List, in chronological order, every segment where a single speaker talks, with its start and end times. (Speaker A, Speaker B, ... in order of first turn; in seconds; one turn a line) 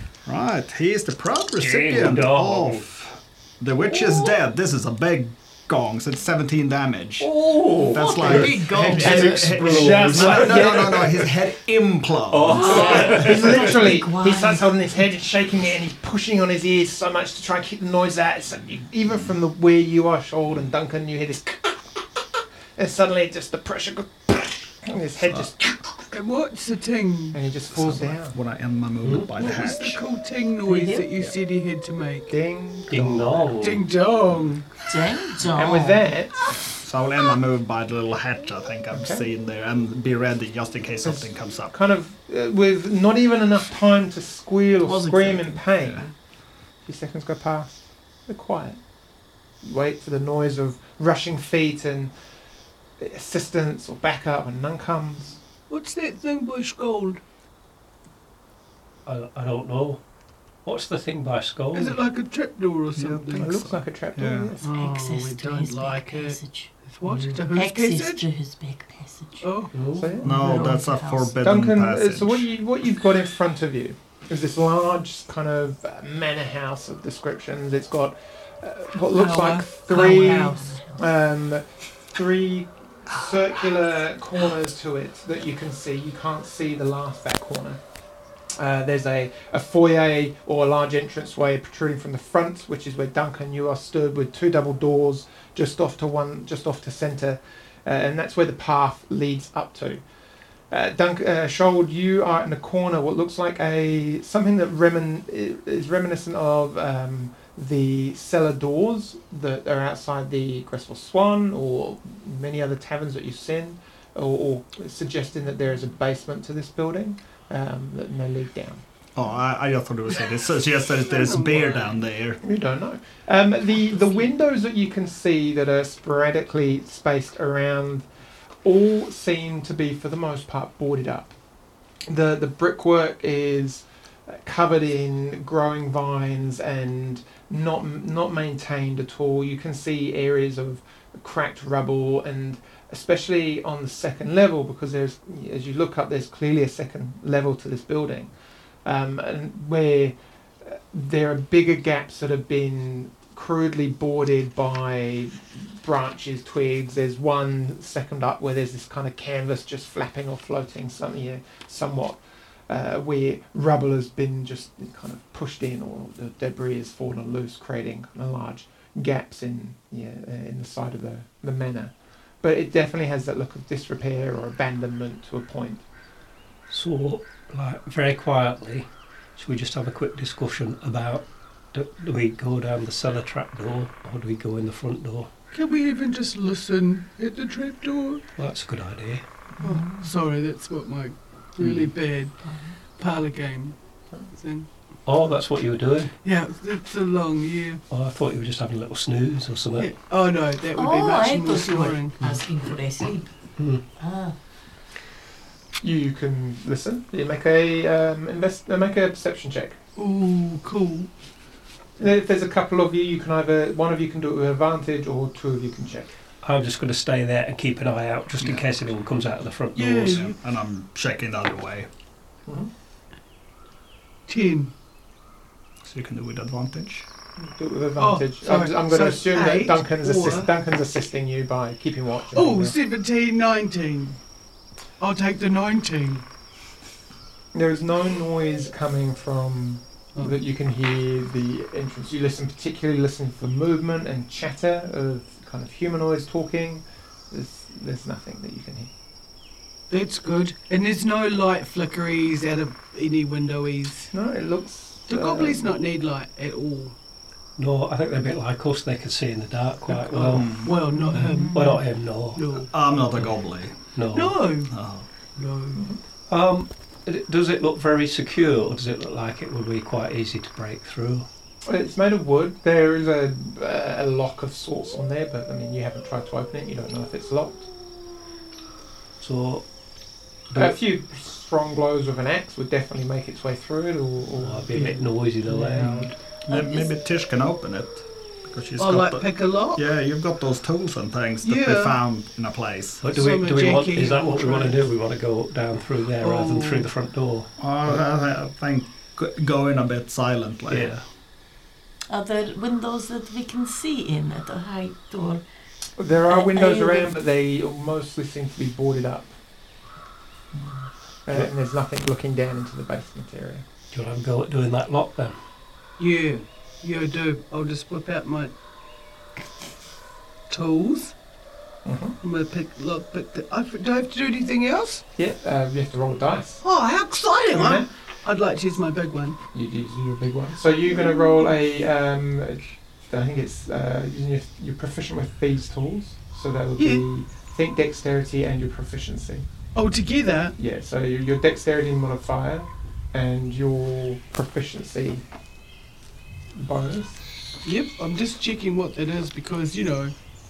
Speaker A: 0.2-13.2
Speaker B: 1.6-2.8
Speaker C: 7.2-9.5
Speaker B: 7.4-10.8
Speaker D: 9.0-11.3
Speaker B: 12.3-13.8
Speaker C: 12.5-14.7
Speaker D: 12.7-22.0
Speaker D: 22.8-26.0
Speaker A: 25.2-25.5
Speaker E: 26.1-27.4
Speaker D: 27.3-28.4
Speaker A: 27.7-30.0
Speaker E: 29.4-32.3
Speaker C: 30.6-31.1
Speaker D: 32.3-33.5
Speaker B: 32.9-33.8
Speaker E: 33.6-34.7
Speaker C: 34.9-36.1
Speaker D: 35.5-36.4
Speaker A: 36.7-41.7
Speaker D: 38.9-39.2
Speaker D: 41.0-46.1
Speaker C: 44.8-45.6
Speaker D: 46.8-48.8
Speaker D: 49.6-52.1
Speaker D: 53.0-55.4
Speaker E: 55.7-57.2
Speaker B: 59.0-60.0
Speaker B: 60.6-62.0
Speaker E: 61.7-63.5
Speaker A: 62.9-64.5
Speaker D: 63.4-64.6
Speaker E: 64.6-68.2
Speaker C: 64.6-66.7
Speaker B: 67.0-67.4
Speaker C: 67.5-69.5
Speaker E: 69.4-70.1
Speaker B: 69.7-70.1
Speaker D: 69.9-70.4
Speaker C: 70.2-71.4
Speaker A: 70.2-72.5
Speaker D: 71.4-87.8
Speaker E: 79.1-80.5
Speaker C: 79.9-81.0
Speaker D: 88.6-100.0
Speaker D: 100.7-118.8
Speaker A: 119.1-122.4
Speaker E: 121.1-121.9
Speaker D: 122.4-128.1
Speaker D: 128.6-131.3
Speaker D: 132.1-148.3
Speaker D: 148.8-175.8
Speaker B: 176.7-185.3
Speaker E: 185.5-188.2
Speaker B: 188.4-189.2
Speaker E: 189.6-192.3
Speaker C: 189.6-190.0
Speaker B: 191.6-191.9
Speaker C: 192.4-192.7
Speaker E: 192.9-193.8
Speaker E: 194.3-194.7
Speaker B: 195.1-196.1
Speaker E: 196.2-197.8
Speaker B: 197.9-199.9
Speaker E: 199.8-202.2
Speaker C: 200.7-203.3
Speaker B: 203.6-203.8
Speaker C: 204.0-204.3
Speaker D: 205.8-209.8
Speaker E: 209.9-211.1
Speaker D: 212.0-216.1
Speaker B: 216.4-220.2
Speaker E: 219.8-220.3
Speaker A: 220.1-221.9
Speaker E: 224.3-224.7
Speaker A: 225.8-227.1
Speaker D: 227.4-232.8
Speaker E: 228.0-230.5
Speaker E: 232.3-234.2
Speaker E: 235.0-236.2
Speaker D: 237.5-248.9
Speaker E: 249.9-254.1
Speaker D: 254.1-255.7
Speaker E: 255.1-256.9
Speaker B: 257.6-262.4
Speaker E: 259.9-262.7
Speaker A: 260.3-260.7
Speaker C: 261.0-261.8
Speaker A: 262.7-263.8
Speaker B: 263.9-264.4
Speaker E: 264.1-264.7
Speaker A: 264.7-265.1
Speaker E: 265.4-265.9
Speaker B: 266.3-271.2
Speaker D: 271.6-277.7
Speaker B: 279.2-279.6
Speaker B: 280.5-280.8
Speaker D: 280.6-285.1
Speaker B: 284.4-286.1
Speaker E: 285.5-286.1
Speaker A: 286.4-293.0
Speaker E: 288.8-289.8
Speaker E: 291.4-292.0
Speaker B: 293.0-297.9
Speaker E: 293.1-294.8
Speaker E: 296.2-296.9
Speaker A: 297.6-300.9
Speaker B: 300.7-301.0
Speaker C: 302.1-305.4
Speaker D: 306.0-309.3
Speaker C: 306.3-307.1
Speaker D: 311.2-313.6
Speaker B: 313.9-315.4
Speaker E: 316.0-318.5
Speaker E: 320.5-321.1
Speaker D: 321.8-322.2
Speaker E: 322.2-325.0
Speaker D: 325.2-326.6
Speaker E: 326.6-329.4
Speaker D: 327.5-327.9
Speaker D: 329.5-339.4
Speaker E: 336.8-337.0
Speaker E: 339.7-340.6
Speaker D: 340.6-345.2
Speaker D: 346.6-347.2
Speaker E: 347.6-350.1